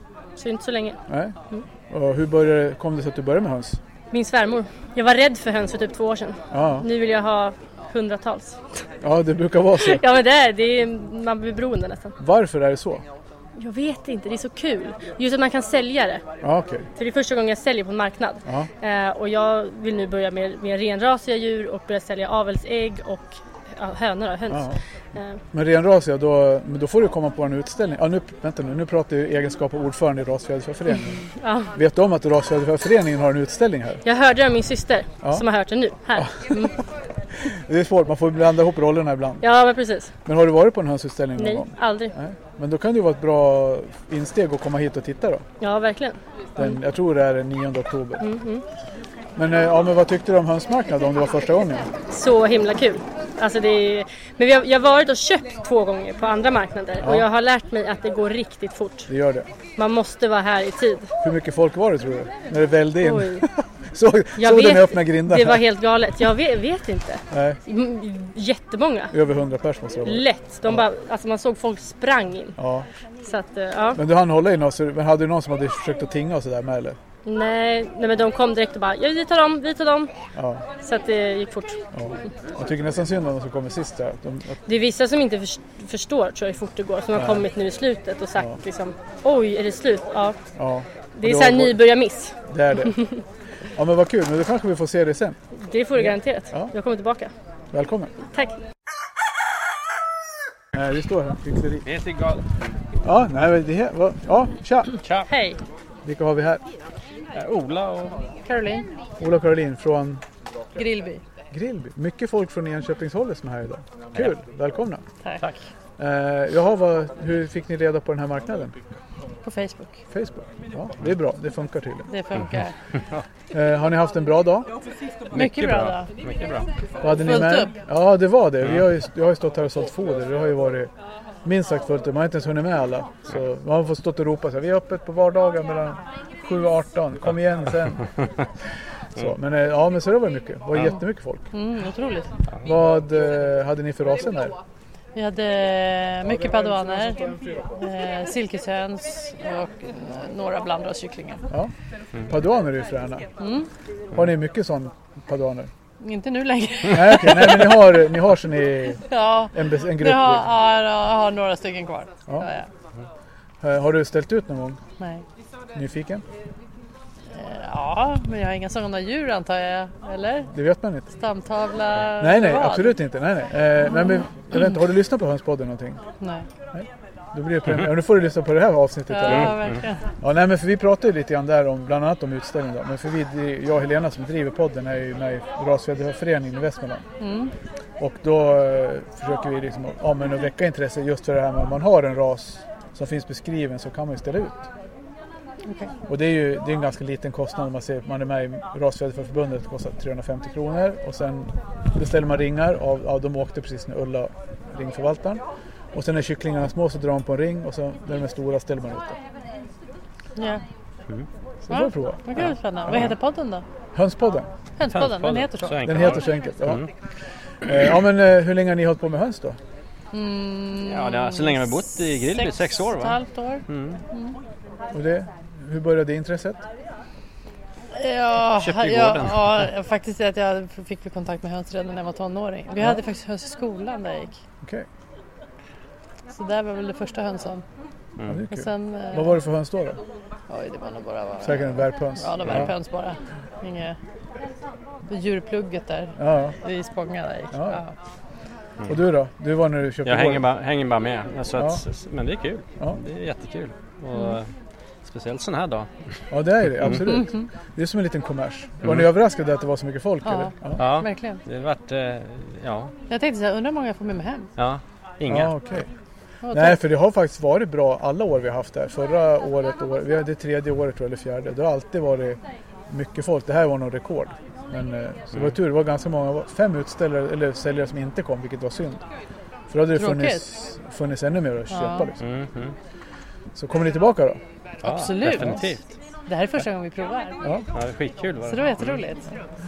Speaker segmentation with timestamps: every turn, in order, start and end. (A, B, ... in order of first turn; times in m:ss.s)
0:00.4-0:01.0 A
0:01.1-0:01.4 B
0:01.9-0:03.8 B
0:04.1-0:08.6 A
0:06.5-0:06.9 B
0:09.0-0:10.0 B
0:09.8-0:12.2 A
0:12.2-0:13.0 B
0:13.6-0:16.2 A
0:16.4-0:16.9 B
0:17.0-0:25.4 A
0:24.5-0:24.8 B
0:25.5-0:34.0 B
0:31.4-0:31.8 A
0:34.0-0:36.8 A
0:36.2-0:36.7 B
0:37.4-0:39.4 B
0:39.4-0:40.1 A
0:40.3-0:45.4 B
0:41.4-0:42.2 A
0:45.6-0:46.7 A
0:46.6-0:48.2 B
0:48.2-0:48.6 A
0:49.4-0:51.9 B
0:52.1-0:59.1 A
0:57.0-0:57.3 B
0:59.1-0:59.5 B
0:59.8-1:01.1 A
1:01.2-1:05.6 B
1:03.0-1:03.5 A
1:04.4-1:09.2 A
1:07.3-1:07.6 B
1:09.1-1:10.8 B
1:10.0-1:12.6 A
1:12.6-1:12.9 B
1:13.2-1:14.0 A
1:14.0-1:17.0 B
1:17.3-1:20.1 A
1:20.4-1:20.6 B
1:20.8-1:21.8 A
1:21.9-1:24.6 B
1:24.7-1:30.4 A
1:27.1-1:27.4 B
1:30.6-1:31.8 B
1:31.2-1:33.1 A
1:32.5-1:33.0 B
1:33.8-1:35.4 B
1:35.6-1:37.3 A
1:36.0-1:36.7 B
1:37.7-1:38.1 B
1:40.7-1:41.8 B
1:41.8-1:42.5 C
1:43.0-1:44.9 B
1:44.9-1:45.3 C
1:45.3-1:45.6 A
1:46.0-1:46.6 B
1:47.3-1:48.2 C
1:48.4-1:48.9 D
1:49.2-1:50.2 B
1:50.8-1:51.2 D
1:51.5-1:55.0 B
1:55.2-1:55.5 D
1:56.0-1:58.8 B
1:59.4-2:00.0 D
2:00.1-2:02.1 B
2:02.1-2:02.7 D
2:03.5-2:04.7 B
2:05.3-2:06.7 C
2:05.3-2:06.1 D
2:07.0-2:10.9 B
2:07.1-2:07.8 D
2:11.4-2:18.0 B
2:19.2-2:21.5 B
2:21.5-2:22.3 D
2:22.6-2:24.6 B
2:25.2-2:31.5 D
2:32.3-2:33.3 B
2:33.4-2:33.7 D
2:34.1-2:35.7 B
2:36.0-2:38.2 D
2:36.9-2:39.0 B
2:39.1-2:42.7 D
2:39.5-2:40.4 B
2:43.6-2:44.8 B
2:45.0-2:45.2 D
2:45.7-2:46.2 B
2:47.3-2:50.5 D
2:50.5-2:51.1 B
2:51.2-2:53.0 D
2:52.2-2:56.0 B
2:53.9-2:54.7 D
2:56.2-2:56.5 D
2:56.7-2:59.6 B
2:59.1-3:00.1 D
2:59.3-2:59.8 C
3:00.2-3:07.0 B
3:07.2-3:07.5 D
3:08.0-3:14.7 B
3:15.7-3:15.9 D
3:16.1-3:25.4 B
3:25.9-3:29.2 B
3:30.4-3:30.6 D
3:31.7-3:32.4 B
3:31.7-3:33.6 D
3:33.9-3:34.5 B
3:34.8-3:36.0 D
3:34.9-3:36.9 C
3:35.8-3:36.8 B
3:37.6-3:39.6 B
3:40.1-3:44.4 D
3:40.8-3:44.0 C
3:44.9-3:46.6 B
3:48.0-3:54.4 D
3:48.5-3:49.7 C
3:56.3-3:57.6 D
3:58.2-3:58.5 C
3:58.3-4:00.0 B
3:58.5-3:59.4 D
4:00.5-4:04.0 D
4:01.4-4:02.7 B
4:02.4-4:02.7 C
4:05.1-4:07.9 D
4:06.2-4:06.5 B
4:07.5-4:07.8 B
4:08.9-4:10.4 B
4:10.0-4:14.5 C
4:11.6-4:11.8 B
4:15.0-4:15.9 C
4:16.3-4:20.8 B
4:17.0-4:17.5 D
4:18.8-4:19.1 C
4:20.2-4:21.4 D
4:20.8-4:22.9 C
4:23.1-4:24.5 D
4:24.6-4:25.6 C
4:25.3-4:25.9 B
4:26.4-4:26.8 D
4:26.5-4:39.0 B
4:39.7-4:42.2 B
4:39.9-4:40.4 D
4:41.7-4:42.1 D
4:42.2-4:42.7 C
4:43.6-4:44.4 B
4:44.8-4:45.8 C
4:44.8-4:45.8 D
4:46.3-4:47.5 D
4:47.7-4:49.1 C
4:48.5-4:49.3 D